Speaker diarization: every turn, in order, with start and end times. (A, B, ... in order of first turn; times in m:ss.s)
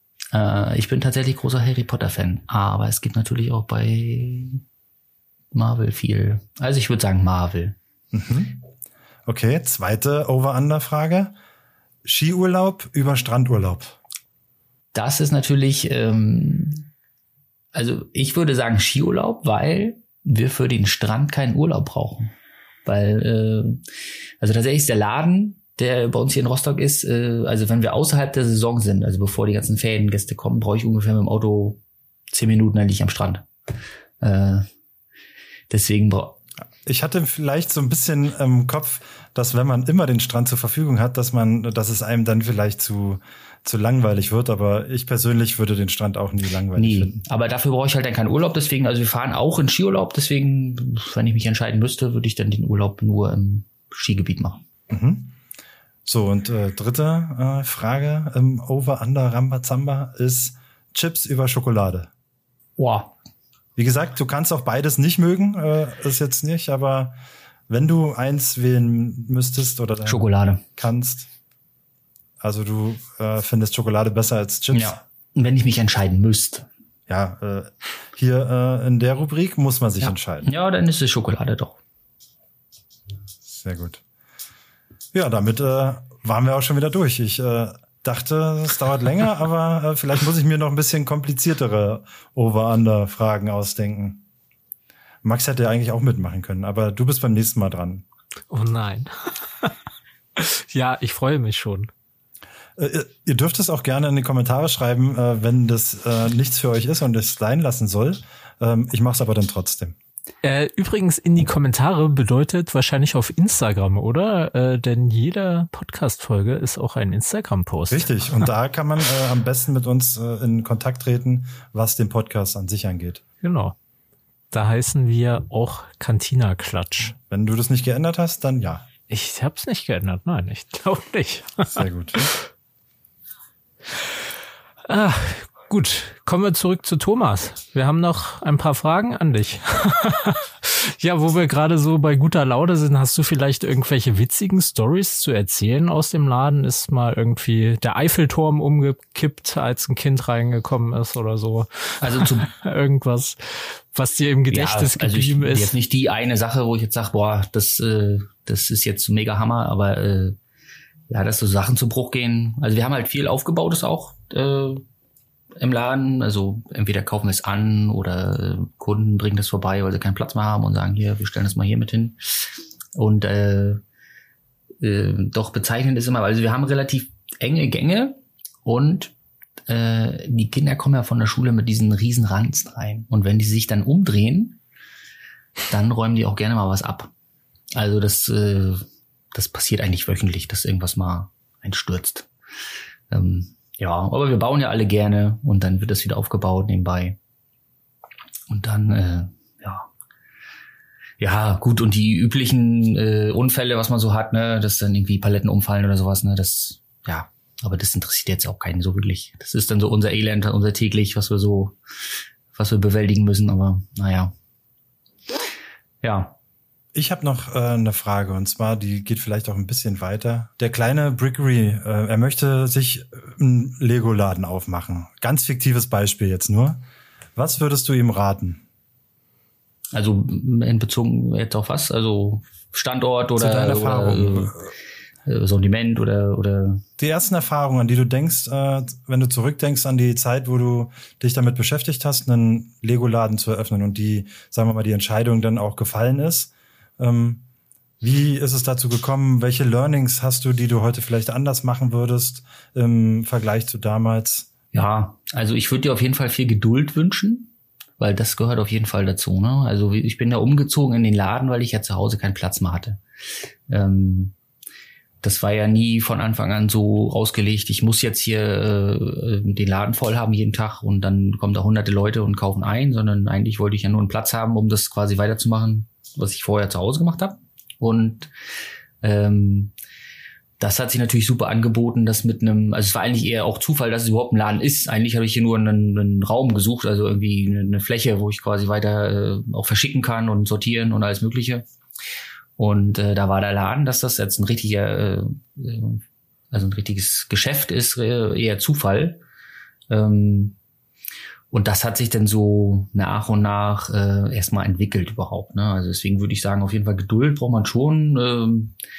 0:00.3-0:04.6 A
0:05.5-0:07.8 A
0:08.1-0:08.6 B
0:09.2-0:11.3 B
0:12.0-0:14.0 B
0:14.9-0:16.8 A
0:17.7-0:22.3 A
0:22.8-0:23.8 A
0:24.4-0:31.8 A
0:32.3-0:33.5 A
0:34.2-0:34.7 A
0:35.7-0:36.4 A
0:36.8-0:47.2 B
0:46.8-0:54.6 A
0:54.9-0:55.3 B
0:56.0-1:02.1 B
1:02.8-1:03.1 A
1:03.8-1:07.2 B
1:07.7-1:11.3 B
1:10.0-1:10.6 A
1:12.4-1:15.0 B
1:14.7-1:16.6 A
1:17.1-1:20.5 B
1:20.0-1:21.8 A
1:23.5-1:24.0 B
1:25.1-1:34.2 B
1:35.2-1:38.0 B
1:38.5-1:39.1 C
1:40.4-1:41.9 C
1:42.8-1:50.0 B
1:50.4-1:58.5 C
1:57.9-2:03.2 B
2:03.4-2:03.7 C
2:04.5-2:07.2 C
2:07.3-2:08.9 B
2:09.1-2:12.4 C
2:11.7-2:12.3 B
2:14.9-2:35.7 C
2:32.0-2:32.5 A
2:34.5-2:40.4 A
2:41.1-2:44.8 A
2:45.6-2:52.2 A
2:53.0-2:53.8 A
2:54.8-2:59.1 A
2:59.7-3:04.6 A
3:05.7-3:07.1 A
3:07.7-3:12.3 A
3:13.1-3:17.2 A
3:18.5-3:19.9 A
3:21.2-3:31.8 A
3:32.5-3:34.3 A
3:36.0-3:36.4 A
3:36.9-3:46.8 B
3:47.4-3:48.6 B
3:49.9-3:54.7 A
3:53.4-3:54.7 B
3:55.2-3:56.8 A
3:57.0-4:07.4 B
4:08.0-4:14.5 B
4:14.7-4:23.0 A
4:23.7-4:24.3 A
4:25.2-4:38.3 A
4:39.0-4:39.7 A
4:40.6-4:51.6 A
4:52.6-4:59.2 A
4:59.9-5:00.6 A
5:01.5-5:08.7 A